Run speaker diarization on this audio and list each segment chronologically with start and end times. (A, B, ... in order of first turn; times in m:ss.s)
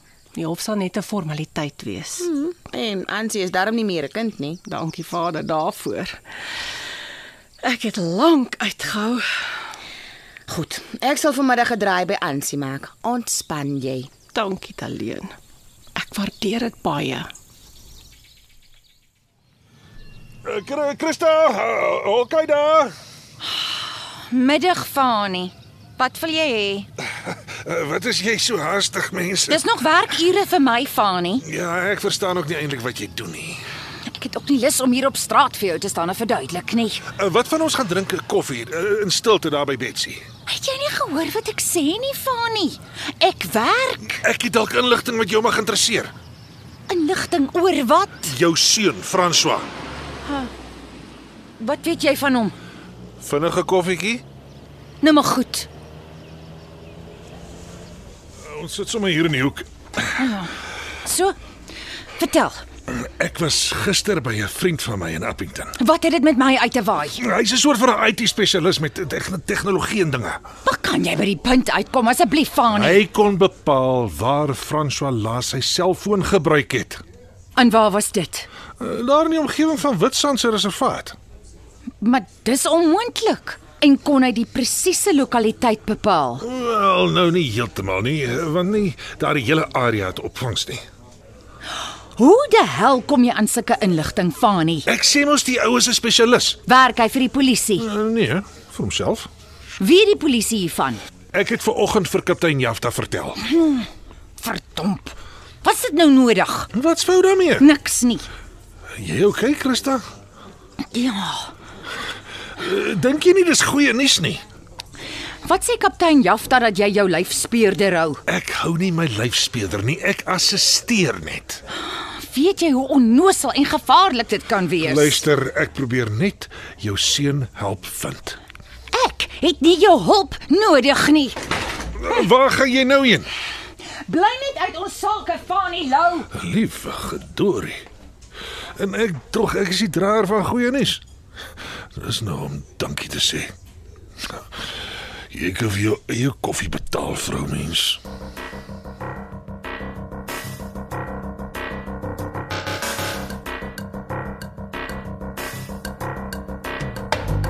0:00.3-0:02.3 A
0:02.2-0:04.6 B
0:04.6-0:06.2 A
0:07.6-0:09.5 A
0:10.5-0:14.1 B
0:14.3-0:15.3 A
0:16.0-0:17.3 A
0:20.4-0:22.9 C
0:23.4-0:26.9 D
0:27.2-0:29.6 C
0:29.5-0:31.4 D
0:31.4-0:33.6 C
0:34.0-0:37.0 D
0:37.2-0:40.2 C
0:40.5-0:44.2 D
0:44.2-0:46.1 C
0:46.9-0:48.4 D
0:48.2-0:49.7 C
0:50.2-0:50.5 D
0:51.6-0:52.5 D
0:53.2-0:54.2 C
0:55.0-0:55.7 D
0:58.4-1:00.1 C
1:00.2-1:00.5 D
1:01.0-1:01.3 D
1:02.2-1:02.6 D
1:02.9-1:05.7 C
1:05.8-1:07.2 D
1:07.2-1:10.4 C
1:10.6-1:13.0 D
1:12.7-1:17.0 C
1:17.6-1:18.5 D
1:18.8-1:21.2 C
1:22.0-1:26.4 D
1:26.4-1:30.8 C
1:32.1-1:34.9 D
1:34.9-1:36.6 C
1:36.7-1:37.9 D
1:37.8-1:39.3 C
1:39.8-1:41.0 D
1:41.3-1:43.4 C
1:43.5-1:43.9 D
1:44.4-1:46.7 D
1:46.8-1:47.6 C
1:47.6-1:48.3 D
1:49.0-1:50.0 C
1:50.9-1:51.5 D
1:52.6-1:54.4 C
1:55.4-1:58.2 D
1:58.3-2:01.6 C
2:01.8-2:05.2 D
2:04.8-2:08.4 C
2:08.9-2:11.4 D
2:12.0-2:13.3 C
2:14.0-2:16.3 D
2:16.3-2:17.8 C
2:18.8-2:21.0 C
2:22.0-2:23.5 C
2:25.3-2:28.0 C